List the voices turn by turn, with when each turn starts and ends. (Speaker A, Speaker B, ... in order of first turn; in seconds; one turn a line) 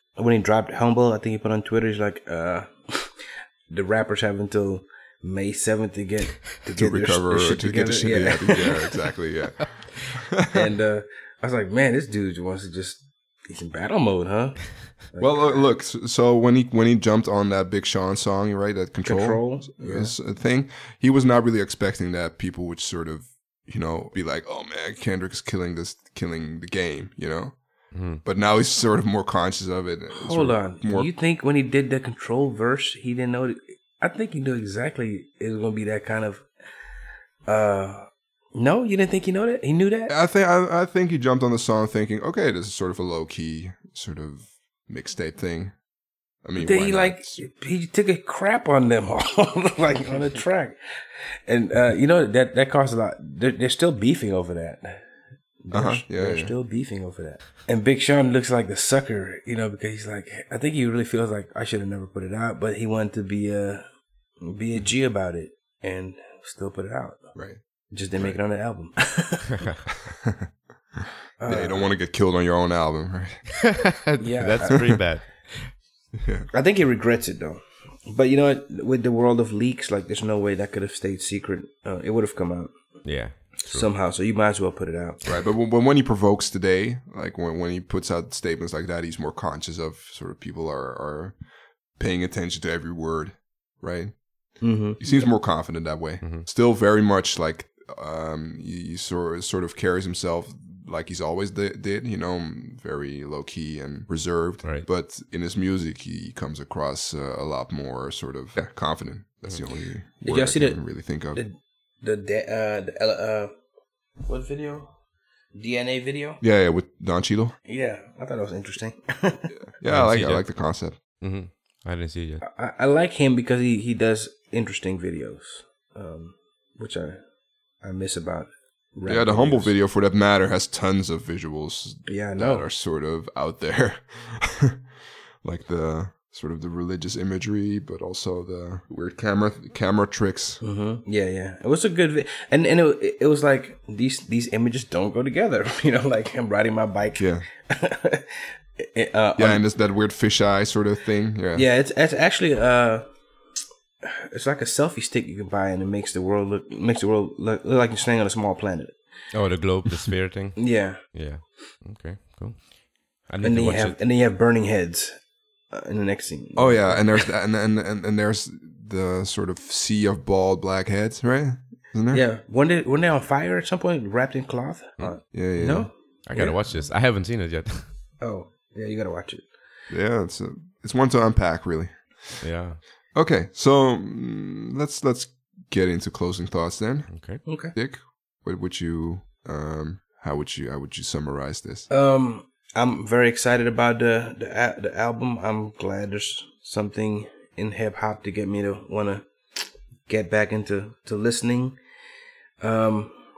Speaker A: 0.2-8.7
Speaker B: 6.7-9.7
Speaker A: 10.5-15.7
Speaker B: 15.2-31.1
Speaker A: 19.0-20.1
Speaker C: 27.9-28.2
Speaker A: 30.1-36.5
Speaker A: 37.5-40.1
Speaker B: 40.1-45.8
Speaker B: 46.4-47.4
Speaker A: 46.6-50.8
Speaker A: 51.4-55.0
Speaker A: 55.6-63.9
Speaker B: 55.7-56.5
Speaker A: 64.4-67.3
Speaker B: 67.3-67.6
Speaker A: 67.9-69.5
Speaker A: 71.4-71.9
Speaker B: 71.5-73.6
Speaker C: 73.7-75.7
Speaker A: 74.2-75.1
Speaker B: 76.2-76.5
Speaker A: 76.5-82.7
Speaker C: 83.0-83.9
Speaker A: 83.7-85.2
Speaker B: 85.3-91.4
Speaker B: 91.9-111.4
Speaker A: 94.6-95.3
Speaker C: 96.2-96.5
Speaker A: 110.2-113.5
Speaker A: 114.2-114.9
Speaker A: 115.5-116.4
Speaker B: 116.4-117.5
Speaker A: 117.7-119.5
Speaker B: 119.6-121.0
Speaker C: 119.8-122.4
Speaker A: 122.4-127.2
Speaker A: 127.8-129.7
Speaker B: 129.1-134.8
Speaker A: 132.1-132.7
Speaker B: 135.4-140.6
Speaker A: 140.6-149.6
Speaker B: 147.2-147.4
Speaker B: 149.4-151.7
Speaker A: 151.5-153.1
Speaker A: 154.0-159.0
Speaker C: 159.3-164.0
Speaker A: 160.6-161.0
Speaker A: 163.4-167.1
Speaker B: 166.6-172.2
Speaker A: 172.1-176.6
Speaker C: 175.0-175.3
Speaker B: 175.3-175.9
Speaker C: 176.3-177.9
Speaker A: 178.2-179.5
Speaker B: 179.9-182.4
Speaker C: 182.4-182.8
Speaker B: 183.2-191.9
Speaker C: 187.1-187.4
Speaker A: 187.5-187.7
Speaker A: 191.9-199.3
Speaker A: 200.1-201.8
Speaker A: 202.6-203.2